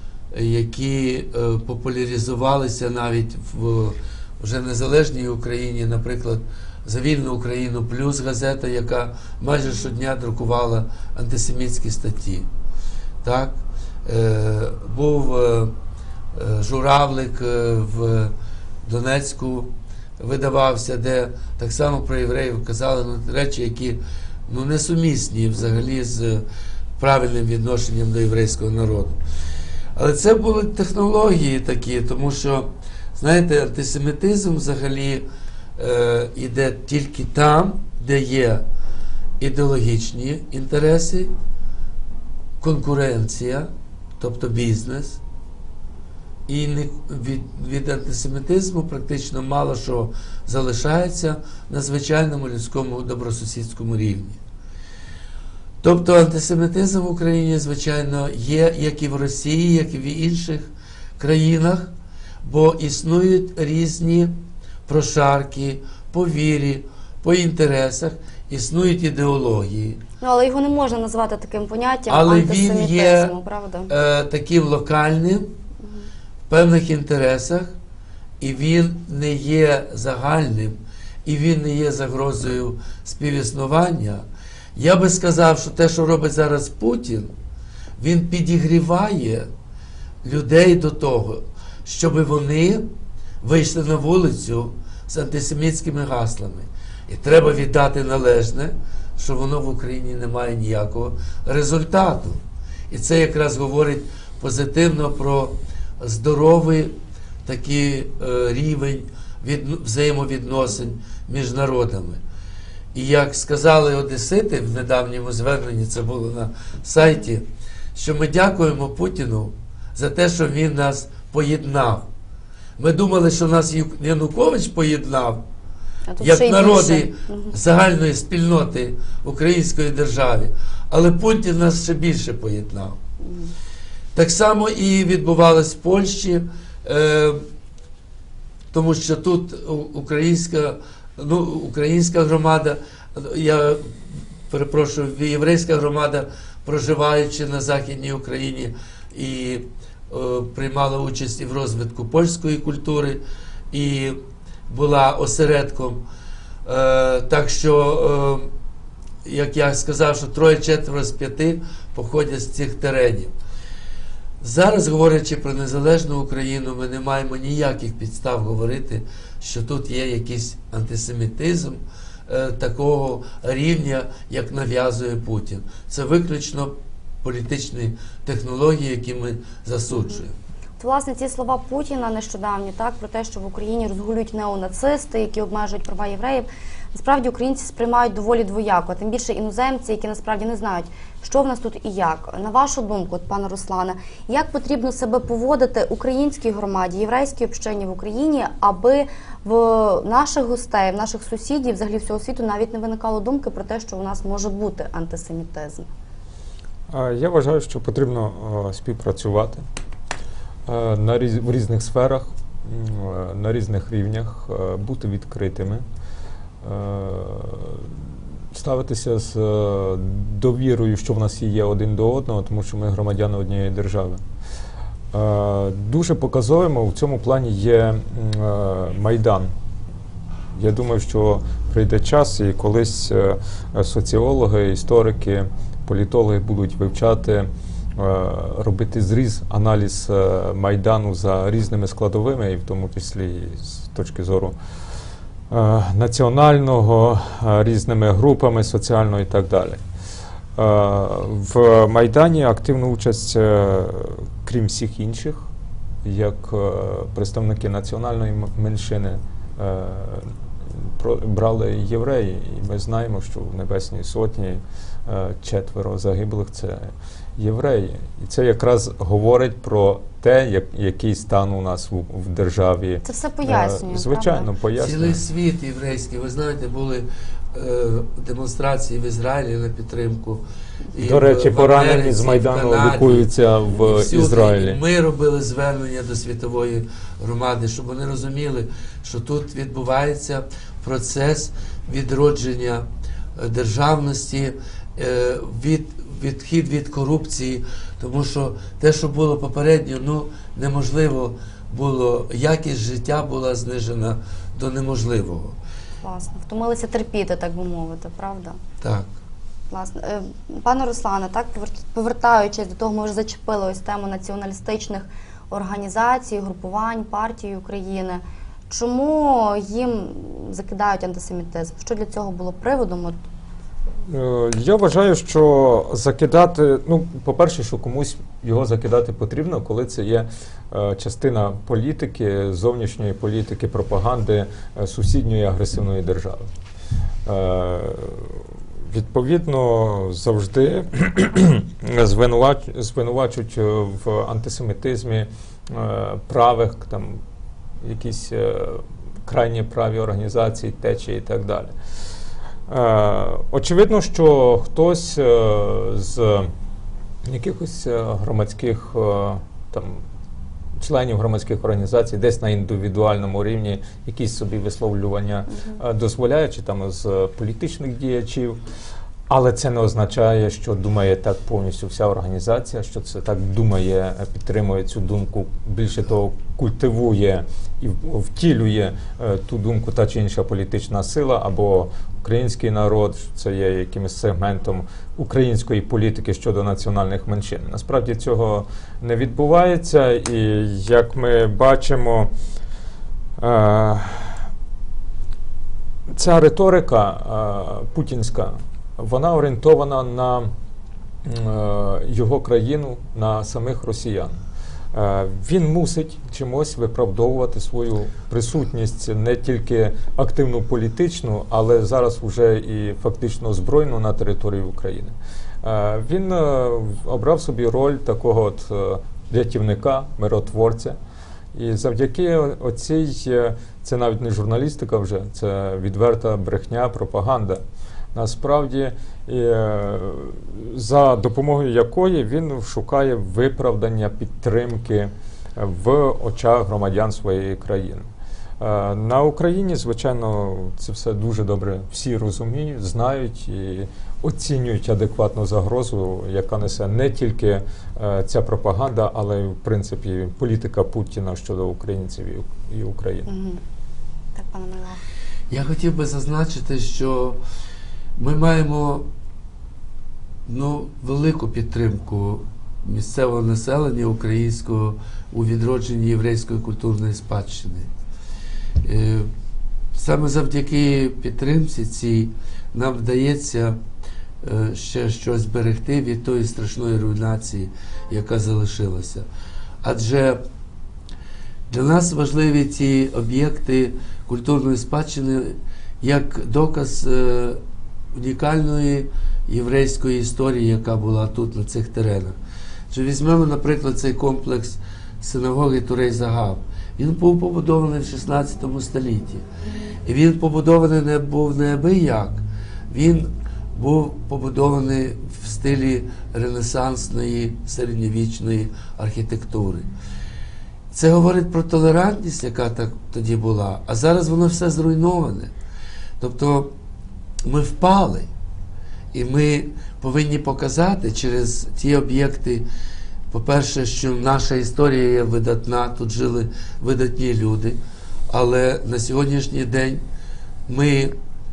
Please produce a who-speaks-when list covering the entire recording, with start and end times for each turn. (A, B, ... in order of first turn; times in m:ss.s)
0:00.3-0:12.5 A
0:13.2-0:15.7 A
0:16.3-0:18.3 A
0:18.8-0:26.4 A
0:27.0-0:29.2 A
0:30.0-0:35.2 A
0:35.8-0:38.6 A
0:39.4-0:41.3 A
0:42.6-0:45.2 A
0:46.5-0:54.4 A
0:55.8-1:01.9 A
1:02.4-1:04.3 A
1:04.9-1:10.0 A
1:10.2-1:13.9 B
1:12.1-1:13.3 A
1:13.9-1:15.5 A
1:15.8-1:16.1 B
1:16.5-1:17.7 A
1:18.4-1:24.2 A
1:24.8-1:27.3 A
1:28.0-1:29.5 A
1:30.2-1:32.9 A
1:33.4-1:46.9 A
1:47.4-1:52.2 A
1:52.9-1:57.4 A
1:57.9-2:02.0 A
2:02.8-2:05.4 A
2:06.1-2:07.5 B
2:06.2-2:13.0 A
2:13.2-2:13.5 B
2:14.1-2:17.4 A
2:18.7-2:36.0 A
2:36.6-2:38.5 A
2:39.2-2:43.3 A
2:44.4-3:00.3 A
2:59.9-3:00.2 B
3:00.8-3:25.9 B
3:26.9-3:29.6 C
3:30.7-3:35.8 C
3:36.6-3:38.0 C
3:38.5-3:44.2 C
3:45.1-3:49.5 C
3:50.5-4:04.6 C
4:05.5-4:09.8 C
4:10.6-4:15.5 C
4:16.0-4:35.2 C
4:33.0-4:34.5 B
4:34.8-4:52.8 A
4:41.0-4:44.8 C
4:53.4-5:05.6 A
5:06.0-5:08.6 B
5:08.8-5:09.1 A
5:09.7-5:23.2 B
5:24.1-5:36.5 C
5:37.2-5:47.2 C
5:47.8-5:51.7 C
5:52.7-5:56.5 C
5:57.2-6:00.0 C
6:00.8-6:08.6 C
6:05.5-6:05.8 B
6:09.3-6:32.3 C
6:33.4-6:34.4 C
6:36.1-6:40.5 C
6:41.2-6:44.4 C
6:44.9-7:01.0 C
7:01.5-7:07.6 C
7:08.1-7:33.3 C
7:33.3-7:33.6 B
7:34.3-7:35.0 B
7:35.5-7:37.4 A
7:38.2-7:39.1 A
7:40.5-7:47.9 A
7:48.8-7:49.3 A
7:49.9-7:53.8 A
7:54.4-7:59.2 A
7:59.8-8:00.4 A
8:01.7-8:07.6 A
8:08.1-8:12.4 A
8:12.9-8:19.4 A
8:20.0-8:29.9 A
8:30.9-8:35.5 A
8:36.2-8:36.7 A
8:37.4-8:38.3 A
8:39.1-8:42.6 A
8:43.3-8:47.8 A
8:48.3-8:50.0 A
8:50.7-8:51.1 A